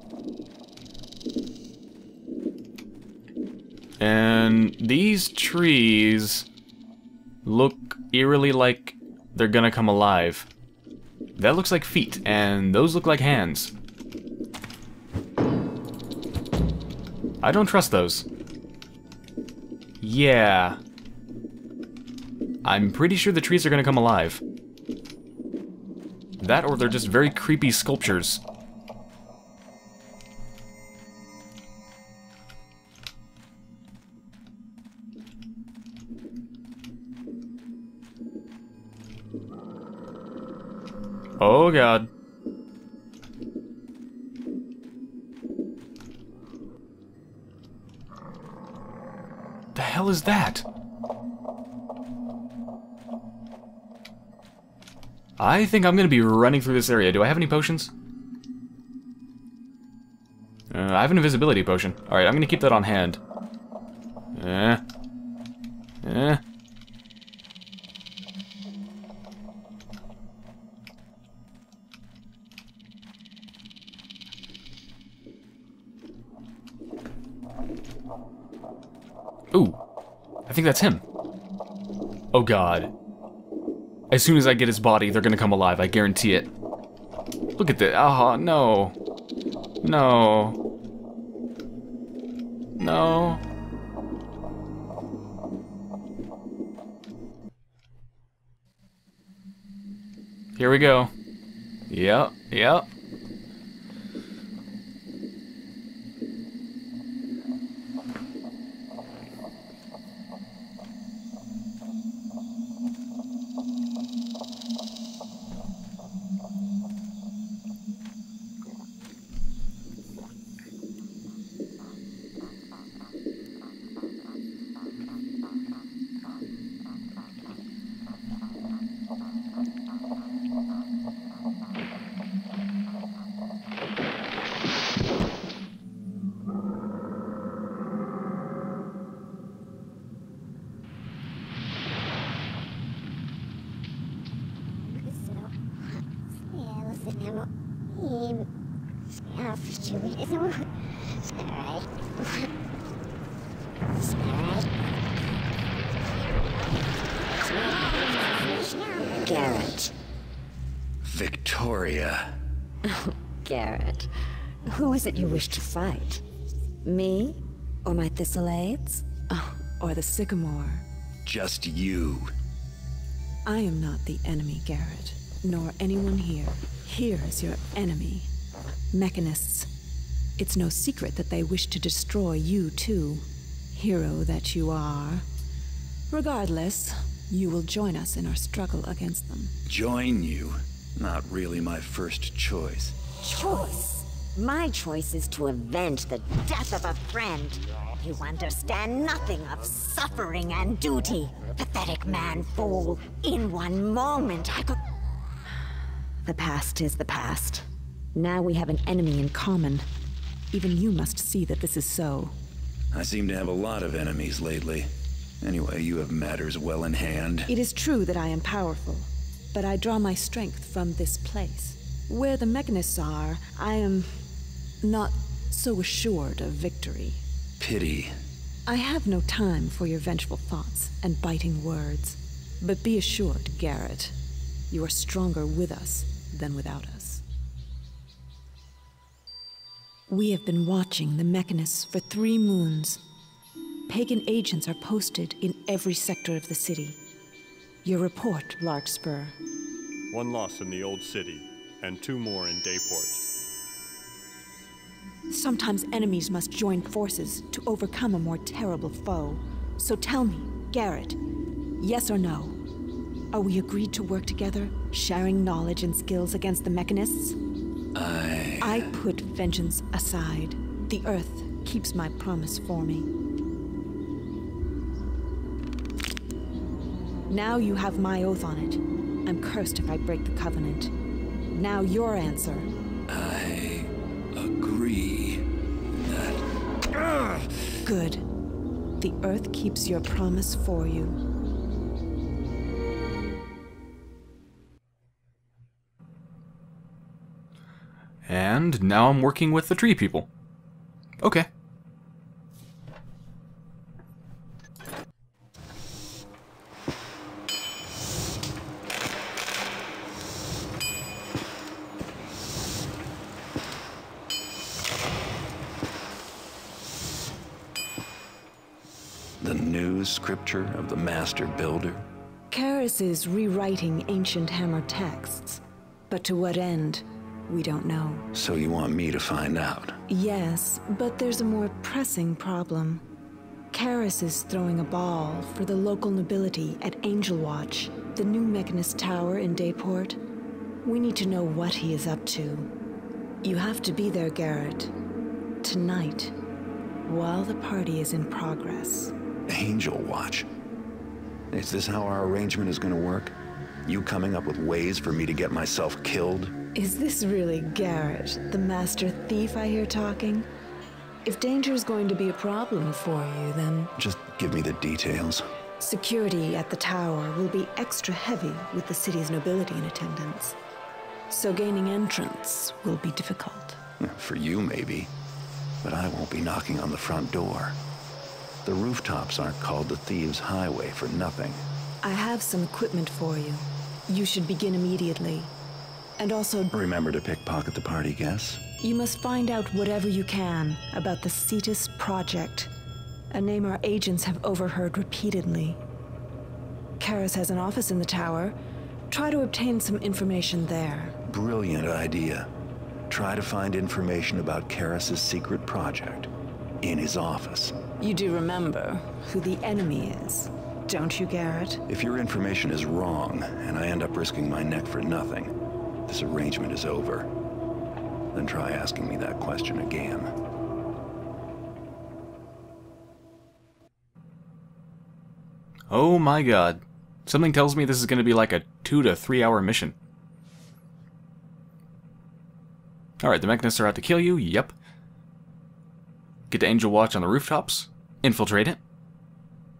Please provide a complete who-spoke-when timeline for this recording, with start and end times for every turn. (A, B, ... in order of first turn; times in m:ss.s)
0:04.0-0:06.4 A
0:07.4-0:10.5 A
0:11.4-0:13.7 A
0:17.4-0:18.2 A
0:20.0-0:20.8 A
0:22.6-0:24.4 A
0:26.4-0:28.4 A
0:41.4-0:42.1 A
0:49.7-0:50.6 A
0:55.4-0:57.9 A
1:00.7-1:03.2 A
1:04.3-1:04.8 A
1:06.0-1:06.4 A
1:19.5-1:19.8 A
1:20.5-1:21.0 A
1:22.3-1:22.9 A
1:24.1-1:26.5 A
1:27.6-1:28.9 A
1:29.8-1:30.6 A
1:32.8-1:33.4 A
1:40.6-1:41.1 A
1:41.9-1:42.9 A
2:24.9-2:25.5 B
2:26.5-2:28.5 B
2:29.2-2:30.6 B
2:31.3-2:32.2 B
2:34.0-2:34.6 B
2:38.1-2:39.9 B
2:41.0-2:42.4 C
2:42.9-2:44.1 B
2:44.7-2:46.2 B
2:46.8-2:47.4 B
2:48.0-2:50.8 D
2:51.2-2:52.3 C
2:53.4-2:58.3 D
2:58.9-2:59.7 D
3:00.4-3:05.2 D
3:06.1-3:09.5 D
3:09.7-3:13.0 C
3:13.2-3:24.8 B
3:26.2-3:29.8 D
3:30.5-3:32.3 D
3:32.9-3:34.9 C
3:35.4-3:37.5 C
3:37.5-3:44.2 D
3:44.8-3:47.2 D
3:47.6-3:48.2 C
3:48.7-3:54.1 D
3:54.7-3:57.2 D
4:00.1-4:03.0 D
4:03.9-4:07.0 D
4:07.8-4:09.3 D
4:10.1-4:13.2 E
4:15.3-4:21.2 D
4:21.8-4:22.6 D
4:23.3-4:27.4 D
4:27.9-4:28.9 C
4:28.6-4:33.1 D
4:37.3-4:40.9 D
4:41.5-4:42.7 D
4:43.1-4:45.5 C
4:46.0-4:46.4 C
4:47.8-4:48.2 D
4:49.0-4:51.2 D
4:58.2-5:00.3 A
5:01.2-5:01.5 A
5:19.4-5:22.0 C
5:22.5-5:28.3 D
5:28.3-5:30.0 C
5:30.1-5:33.0 D
5:33.7-5:40.2 D
5:40.8-5:42.7 D
5:43.4-5:44.9 D
5:45.6-5:46.3 D
5:47.0-5:49.1 D
5:49.5-5:50.5 C
5:51.5-5:56.5 C
5:56.7-6:00.5 D
6:01.2-6:03.9 D
6:04.0-6:05.4 C
6:05.8-6:10.6 D
6:11.3-6:13.8 D
6:14.0-6:15.1 C
6:15.8-6:17.8 C
6:18.6-6:21.6 C
6:22.0-6:25.5 D
6:26.2-6:26.7 D
6:26.7-6:28.6 C
6:28.8-6:32.7 D
6:33.3-6:35.8 D
6:37.0-6:38.6 D
6:39.1-6:41.2 D
6:41.2-6:42.5 C
6:43.1-6:46.3 C
6:46.8-6:47.8 C
6:48.0-6:51.8 D
6:51.9-6:55.5 C
6:56.1-6:57.3 C
6:58.3-7:00.3 C
7:05.9-7:09.9 A
7:13.2-7:14.7 A
7:16.5-7:18.8 A